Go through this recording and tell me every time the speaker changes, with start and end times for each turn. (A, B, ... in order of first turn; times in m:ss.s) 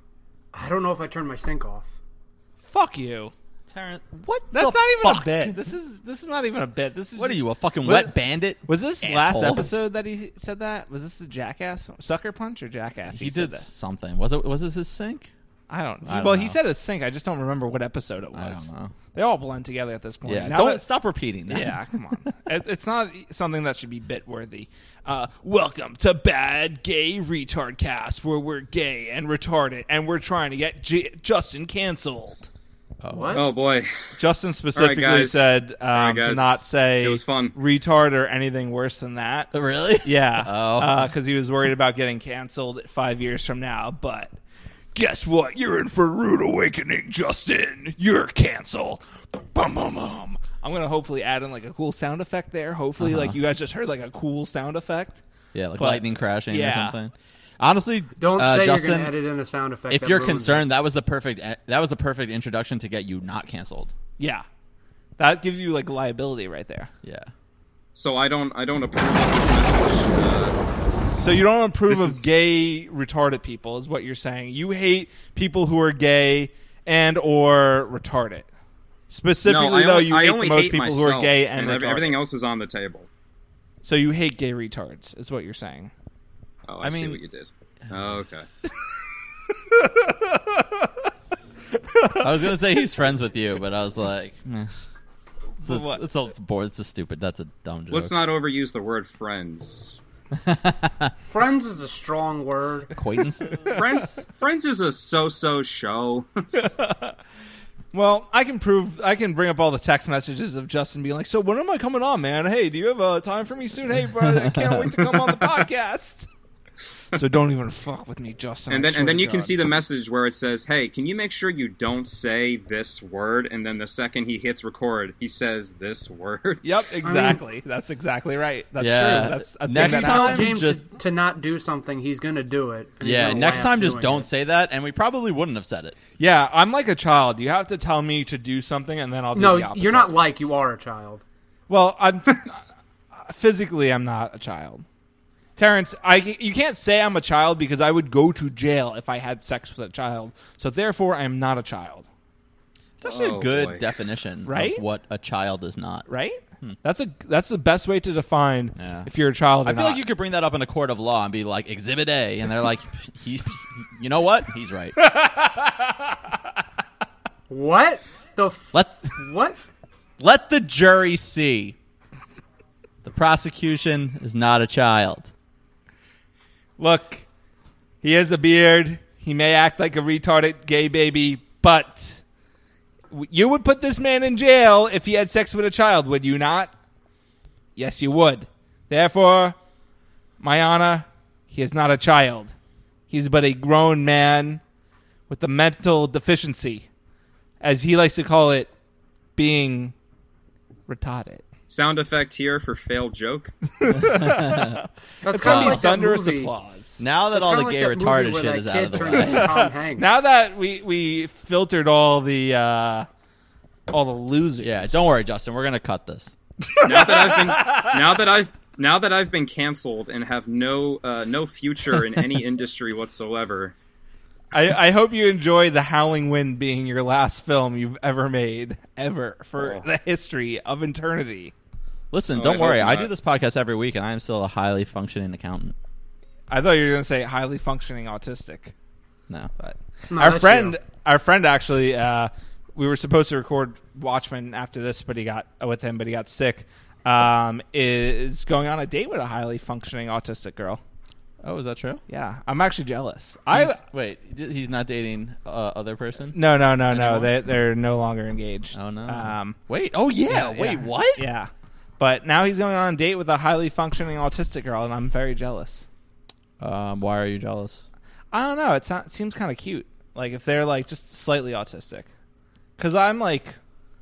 0:00.5-0:01.9 A
0:02.6-0:03.3 B
0:03.7-0:05.6 C
0:04.5-0:13.7 B
0:07.2-0:09.7 C
0:13.1-0:15.3 C
0:15.7-0:20.8 B
0:16.0-0:16.6 C
0:18.3-0:18.9 C
0:20.2-0:21.8 C
0:21.5-0:32.5 B
0:33.0-0:33.4 C
0:33.1-0:33.4 A
0:33.3-0:33.9 D
0:34.2-0:39.5 B
0:34.7-0:37.6 D
0:39.5-0:41.1 C
0:40.0-0:44.4 B
0:44.9-0:55.2 B
0:53.0-0:53.4 C
0:55.5-0:59.1 C
0:55.8-0:57.0 B
0:58.2-1:00.6 A
0:59.9-1:03.9 C
1:04.2-1:04.4 B
1:05.2-1:06.9 B
1:07.0-1:07.3 C
1:08.0-1:11.3 D
1:11.2-1:18.5 B
1:11.8-1:12.2 D
1:19.1-1:22.2 B
1:19.4-1:23.1 D
1:23.8-1:25.9 B
1:26.7-1:28.5 D
1:26.8-1:27.2 C
1:29.7-1:31.1 B
1:31.7-1:32.5 B
1:32.1-1:34.7 C
1:35.6-1:36.0 B
1:35.6-1:38.1 C
1:37.9-1:40.0 D
1:40.3-1:41.1 C
1:41.3-1:42.9 A
1:42.9-1:43.8 C
1:43.4-1:43.8 B
1:43.7-1:46.3 D
1:46.5-1:47.2 B
1:47.9-1:56.3 B
1:54.2-1:55.4 C
1:57.1-1:59.6 B
1:58.7-2:06.7 D
2:06.6-2:10.5 B
2:07.0-2:07.4 A
2:08.8-2:10.8 C
2:09.8-2:14.3 A
2:13.0-2:16.0 C
2:16.2-2:20.1 B
2:19.3-2:21.2 A
2:21.7-2:24.8 B
2:25.6-2:32.1 B
2:33.0-2:36.0 C
2:33.0-2:33.9 D
2:34.4-2:34.8 B
2:36.1-2:40.0 B
2:38.8-2:39.1 C
2:39.6-2:44.9 C
2:45.0-2:46.1 B
2:47.5-2:49.6 A
2:48.7-2:49.1 C
2:50.2-2:51.8 C
2:53.0-2:55.3 C
2:56.8-2:57.2 B
2:58.0-3:02.2 B
3:03.1-3:06.7 B
3:07.8-3:09.6 B
3:10.4-3:12.5 B
3:13.1-3:14.6 B
3:15.3-3:16.8 B
3:17.6-3:18.7 B
3:19.4-3:19.9 B
3:20.9-3:21.4 B
3:21.7-3:23.5 D
3:23.8-3:27.0 B
3:23.9-3:24.8 C
3:25.2-3:26.5 A
3:25.4-3:25.9 C
3:27.0-3:29.6 C
3:27.3-3:30.1 A
3:29.1-3:33.1 B
3:33.9-3:35.0 B
3:34.6-3:36.3 C
3:36.7-3:38.0 B
3:36.8-3:43.7 D
3:44.5-3:51.5 B
3:49.6-3:49.8 D
3:52.1-3:55.7 C
3:52.3-3:53.1 D
3:56.5-3:58.7 B
3:59.6-4:10.8 B
4:00.1-4:00.8 A
4:11.4-4:12.0 C
4:12.1-4:13.8 B
4:13.5-4:17.4 C
4:16.3-4:19.6 B
4:18.7-4:21.2 C
4:20.3-4:25.8 B
4:26.6-4:27.8 C
4:28.3-4:32.1 B
4:32.8-4:33.6 B